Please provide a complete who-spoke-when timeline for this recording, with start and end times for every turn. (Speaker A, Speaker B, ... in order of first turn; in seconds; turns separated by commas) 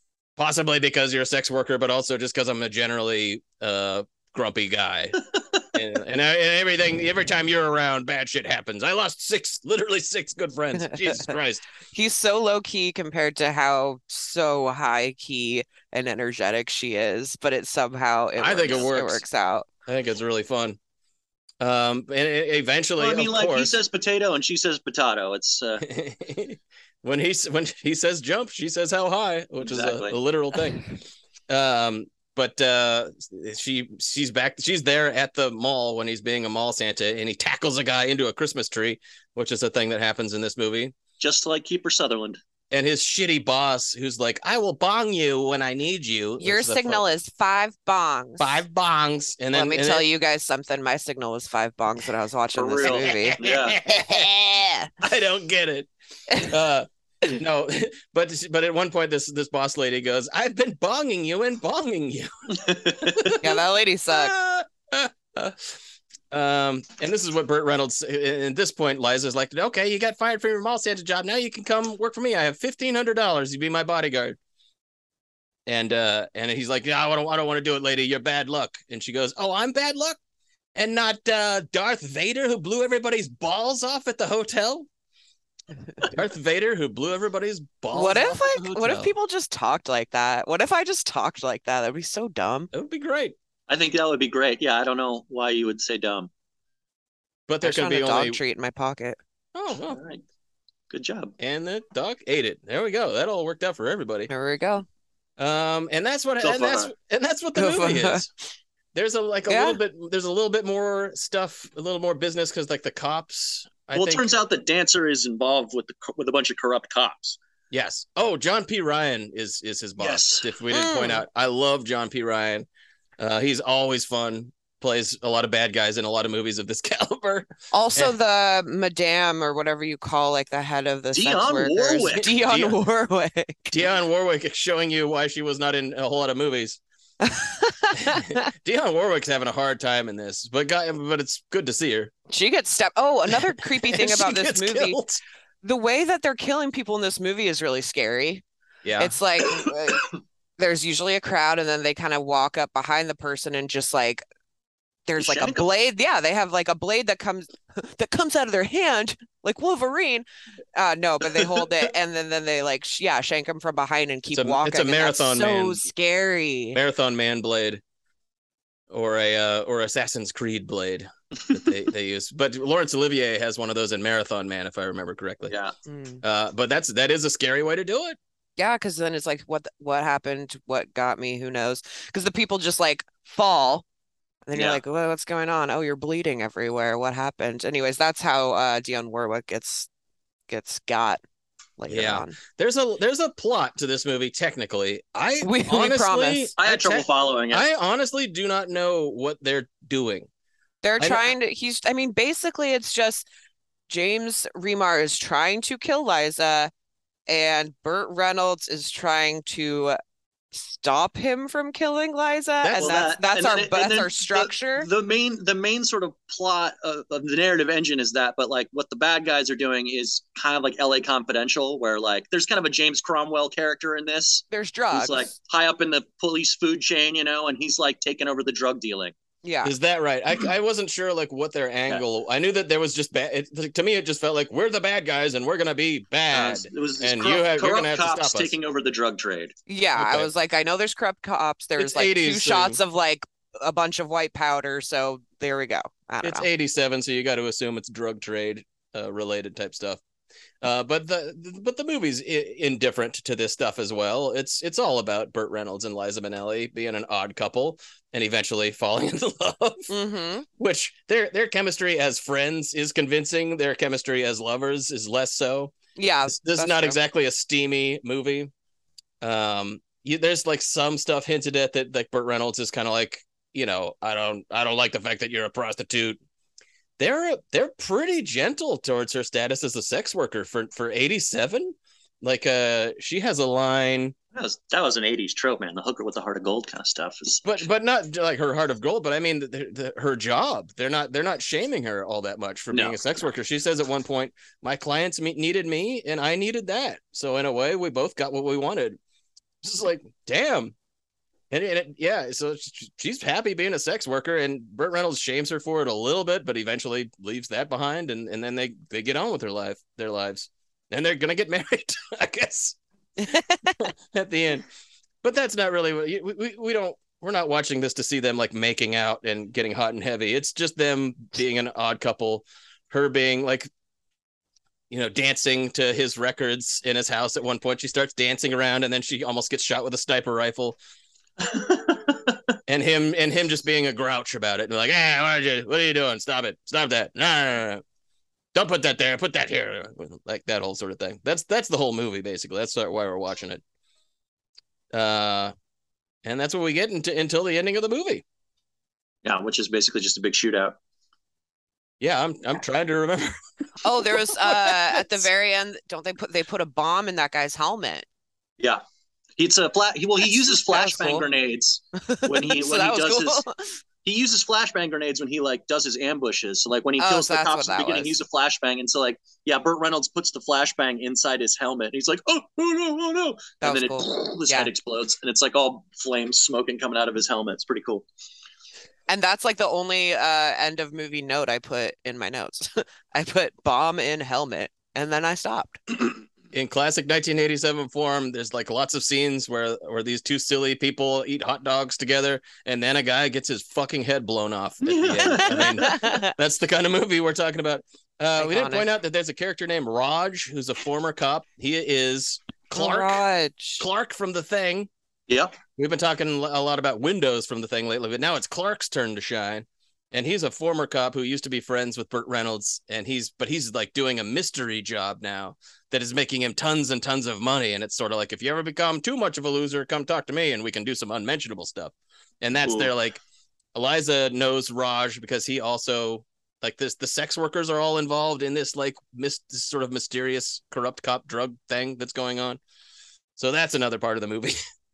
Speaker A: 0.4-5.2, Speaker A: 5.7-11.6, Speaker B: 10.8-11.3, Speaker B: 11.9-19.6, Speaker A: 18.4-19.2, Speaker A: 19.9-20.8, Speaker A: 21.6-23.8, Speaker C: 23.0-25.8, Speaker A: 25.8-30.9, Speaker C: 29.6-30.1, Speaker A: 31.5-40.9, Speaker C: 41.2-42.4, Speaker A: 42.7-47.1, Speaker B: 46.4-48.6, Speaker A: 48.4-50.0, Speaker B: 49.5-54.9, Speaker C: 52.6-53.8, Speaker A: 52.8-54.3, Speaker A: 55.0-55.9, Speaker A: 56.4-65.8, Speaker C: 62.6-63.3, Speaker B: 63.4-64.3, Speaker A: 66.3-74.4, Speaker A: 75.7-80.2, Speaker A: 80.8-84.9, Speaker A: 86.0-89.1, Speaker B: 87.9-92.7, Speaker A: 92.7-93.4, Speaker C: 93.7-96.3, Speaker A: 97.5-98.4, Speaker B: 97.6-99.2, Speaker A: 99.5-100.0, Speaker C: 99.9-100.2, Speaker C: 100.9-101.3, Speaker A: 101.4-104.3, Speaker B: 104.3-104.8, Speaker A: 105.4-108.3, Speaker C: 106.4-106.9, Speaker B: 107.6-108.3, Speaker A: 108.9-114.3, Speaker B: 109.5-109.8, Speaker C: 113.9-117.4, Speaker A: 117.7-122.7, Speaker C: 120.0-120.5, Speaker B: 120.7-121.2, Speaker A: 123.2-128.1, Speaker B: 127.7-133.8, Speaker C: 131.1-132.3, Speaker A: 132.1-132.8, Speaker A: 133.7-136.8, Speaker B: 137.2-138.4, Speaker A: 137.9-142.1, Speaker B: 142.3-145.0, Speaker A: 143.3-145.2, Speaker B: 145.6-148.4, Speaker A: 148.8-149.2, Speaker B: 149.0-150.1, Speaker B: 150.6-154.2, Speaker B: 155.1-166.8, Speaker C: 155.2-155.7, Speaker A: 164.3-165.9, Speaker A: 166.7-167.8, Speaker A: 168.9-175.6, Speaker C: 175.5-175.7, Speaker B: 175.9-176.2, Speaker A: 176.2-178.2, Speaker B: 178.6-183.8, Speaker B: 184.5-189.9, Speaker C: 184.5-184.8, Speaker B: 190.5-191.2, Speaker B: 191.8-192.4, Speaker A: 191.9-200.3, Speaker B: 195.4-196.5, Speaker C: 196.6-197.7, Speaker B: 200.8-203.2, Speaker A: 201.0-201.3, Speaker B: 203.9-206.7, Speaker B: 207.3-210.0, Speaker B: 210.5-214.9, Speaker A: 212.6-213.0, Speaker C: 212.8-229.1, Speaker B: 224.5-225.3, Speaker B: 229.4-229.7, Speaker A: 229.6-238.6, Speaker C: 236.3-239.5, Speaker B: 239.7-246.5, Speaker A: 239.9-240.3, Speaker A: 241.8-242.8, Speaker A: 246.2-250.0, Speaker A: 250.6-259.9, Speaker B: 259.9-260.4, Speaker A: 260.6-265.7, Speaker B: 265.9-267.0, Speaker A: 266.3-268.5, Speaker A: 269.2-276.2, Speaker A: 277.0-284.1, Speaker C: 284.4-287.6, Speaker A: 287.4-299.0, Speaker C: 292.7-293.0, Speaker A: 299.6-300.7, Speaker A: 301.5-312.8, Speaker B: 313.2-313.8, Speaker A: 313.8-314.6, Speaker A: 315.2-323.7, Speaker A: 324.9-330.8, Speaker C: 331.5-331.8, Speaker A: 332.7-337.8, Speaker A: 338.5-343.6, Speaker A: 344.9-345.5, Speaker A: 346.2-348.2, Speaker C: 349.2-350.8, Speaker A: 352.0-353.4, Speaker B: 353.8-358.1, Speaker A: 354.1-355.2, Speaker C: 359.4-363.4, Speaker B: 360.3-361.2, Speaker B: 362.1-363.6, Speaker C: 364.0-378.1, Speaker B: 367.0-368.1, Speaker B: 373.6-374.7, Speaker B: 379.1-385.8, Speaker A: 386.5-403.2, Speaker C: 394.8-396.0, Speaker B: 395.3-396.3, Speaker B: 398.4-398.9, Speaker B: 402.7-403.9, Speaker A: 403.8-404.9, Speaker C: 405.3-405.5, Speaker A: 405.8-423.2, Speaker C: 422.6-422.9, Speaker A: 423.7-432.6, Speaker A: 433.4-434.6